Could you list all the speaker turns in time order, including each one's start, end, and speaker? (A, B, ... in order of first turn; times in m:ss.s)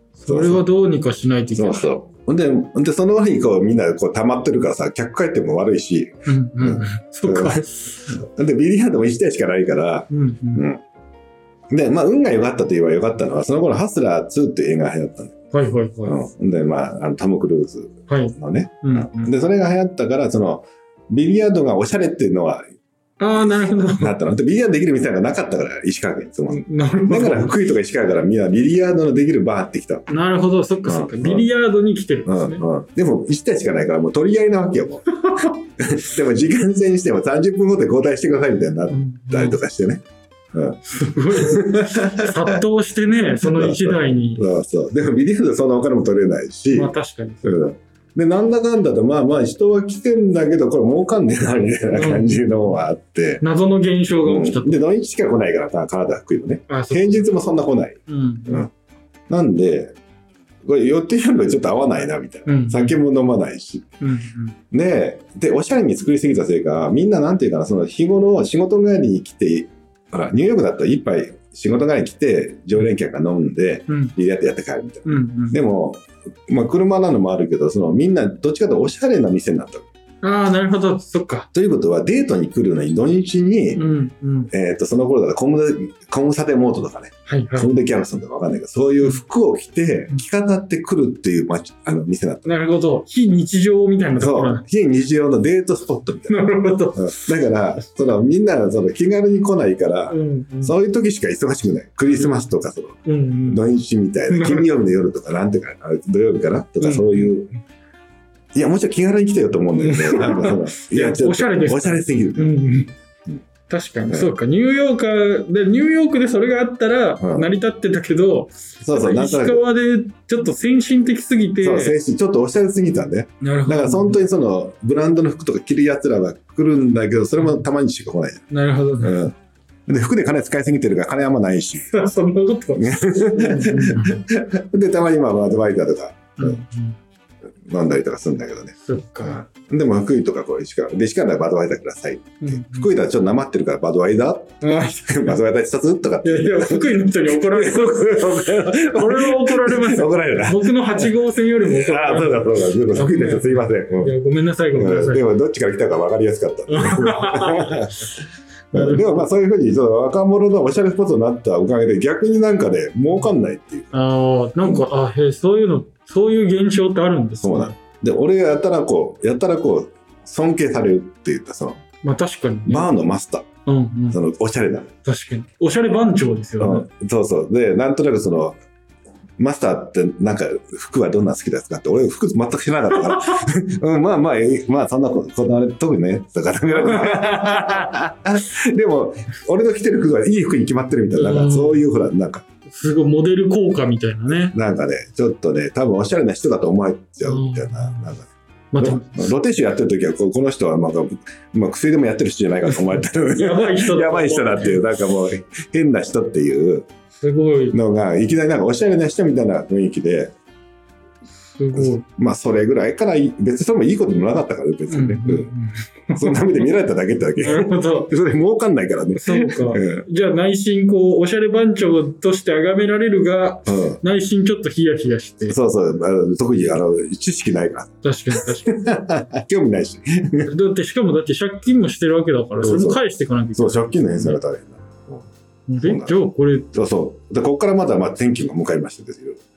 0:00.2-0:01.9 A
0:00.3-0:00.6 B
0:01.5-0:10.8 B
0:06.2-0:08.2 A
0:10.1-0:10.7 A
0:11.7-0:15.3 B
0:15.5-0:16.2 A
0:16.0-0:22.6 B
0:18.1-0:19.3 A
0:23.2-0:24.1 A
0:23.9-0:30.1 B
0:26.5-0:27.5 A
0:30.1-0:32.6 A
0:30.8-0:31.5 B
0:32.2-0:35.1 B
0:35.3-0:35.5 A
0:35.8-0:42.6 B
0:38.9-0:39.6 A
0:40.9-0:44.4 A
0:43.4-0:46.9 B
0:46.7-0:47.5 A
0:47.4-0:53.4 B
0:51.9-0:52.8 A
0:53.4-0:54.8 A
0:54.2-0:58.7 B
0:56.7-0:57.2 A
0:58.1-0:58.7 A
0:59.3-1:00.0 B
1:00.6-1:03.9 B
1:02.4-1:03.0 A
1:04.0-1:04.6 A
1:04.7-1:19.8 B
1:13.9-1:14.1 A
1:15.0-1:15.6 A
1:20.2-1:21.5 A
1:21.5-1:23.8 B
1:23.7-1:24.5 A
1:24.5-1:32.4 B
1:27.3-1:27.7 A
1:32.4-1:34.6 A
1:34.2-1:47.5 B
1:36.3-1:37.3 A
1:40.1-1:40.8 A
1:42.1-1:42.5 A
1:43.0-1:43.6 A
1:44.3-1:44.8 A
1:46.8-1:47.3 A
1:48.5-1:52.6 B
1:49.7-1:52.9 A
1:53.7-2:02.0 A
1:57.2-1:57.5 B
1:58.8-1:59.6 B
2:01.6-2:08.5 B
2:03.4-2:04.2 A
2:07.4-2:07.6 A
2:08.5-2:09.2 A
2:09.0-2:09.3 B
2:09.9-2:11.9 B
2:11.8-2:14.2 A
2:12.7-2:16.6 B
2:16.4-2:17.0 A
2:17.7-2:34.1 B
2:18.8-2:19.4 A
2:22.4-2:22.9 A
2:24.6-2:25.4 A
2:26.2-2:35.2 A
2:34.7-2:38.1 B
2:36.7-2:38.2 A
2:38.7-2:44.0 B
2:38.7-2:39.3 A
2:43.9-2:47.8 A
2:47.4-2:51.8 B
2:52.0-2:52.9 A
2:52.6-2:53.5 B
2:53.6-2:54.2 A
2:54.1-2:54.9 B
2:55.0-2:56.9 A
2:56.6-2:58.6 B
2:59.4-3:12.4 B
3:03.0-3:03.4 A
3:06.7-3:07.9 A
3:11.1-3:11.8 A
3:12.7-3:14.5 A
3:14.3-3:26.9 B
3:17.2-3:18.1 A
3:18.7-3:19.3 A
3:23.2-3:24.8 A
3:27.2-3:27.8 A
3:27.7-3:30.3 B
3:31.4-3:32.0 A
3:31.7-3:35.5 B
3:34.9-3:36.7 A
3:36.1-3:40.0 B
3:37.4-3:38.1 A
3:39.1-3:45.6 A
3:43.6-3:44.0 B
3:45.5-3:50.5 B
3:48.0-3:48.7 A
3:50.5-3:54.4 A
3:52.6-3:53.0 B
3:53.5-3:55.3 B
3:55.7-3:56.7 A
3:55.8-3:56.2 B
3:56.7-3:59.4 B